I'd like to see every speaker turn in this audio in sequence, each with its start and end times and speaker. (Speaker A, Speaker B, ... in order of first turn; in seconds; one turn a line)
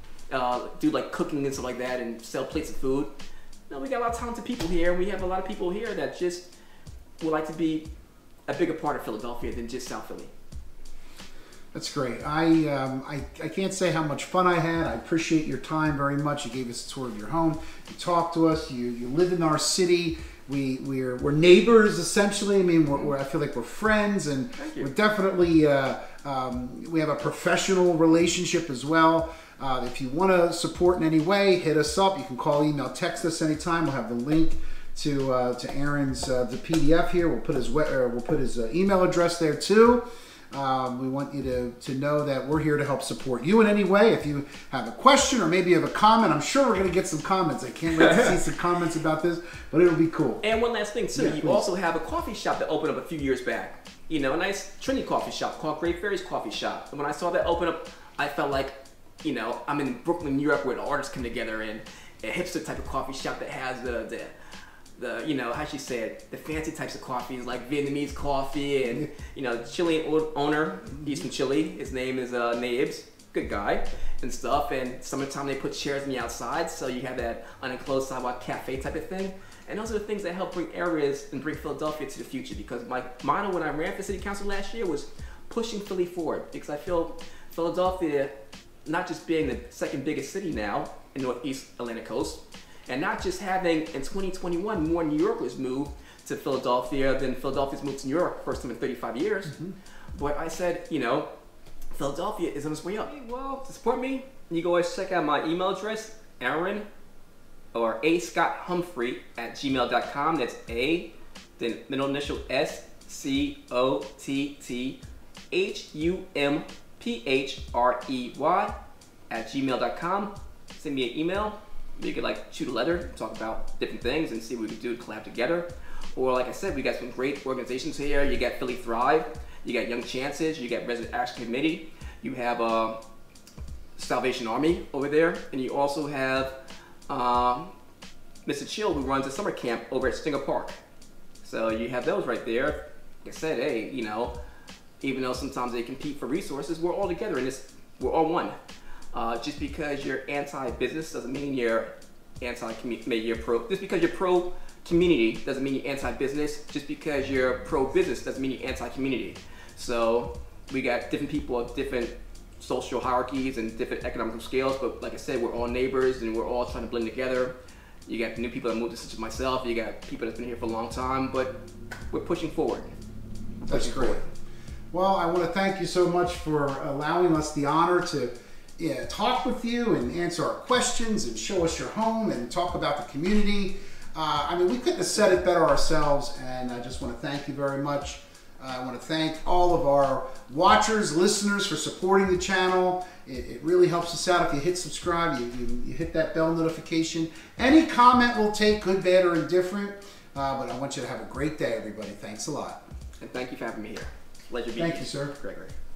Speaker A: 0.3-3.1
Speaker A: 3.7-6.5
Speaker A: 7.2-7.9
Speaker A: 8.5-10.3
Speaker B: 11.7-50.4
Speaker A: 24.6-24.9
Speaker A: 50.4-64.3
Speaker B: 51.1-51.6
Speaker A: 65.0-99.6
Speaker A: 100.1-101.3
Speaker A: 101.9-106.9
Speaker A: 107.7-115.0
Speaker A: 115.5-118.8
Speaker A: 119.3-133.0
Speaker A: 134.0-136.6
Speaker A: 137.1-137.7
Speaker A: 138.5-140.8
Speaker A: 141.4-144.3
Speaker A: 145.0-148.6
Speaker A: 149.1-167.6
Speaker A: 168.1-172.9
Speaker B: 173.7-174.2
Speaker A: 173.7-174.3
Speaker B: 174.9-202.8
Speaker A: 203.2-205.8
Speaker B: 204.8-205.3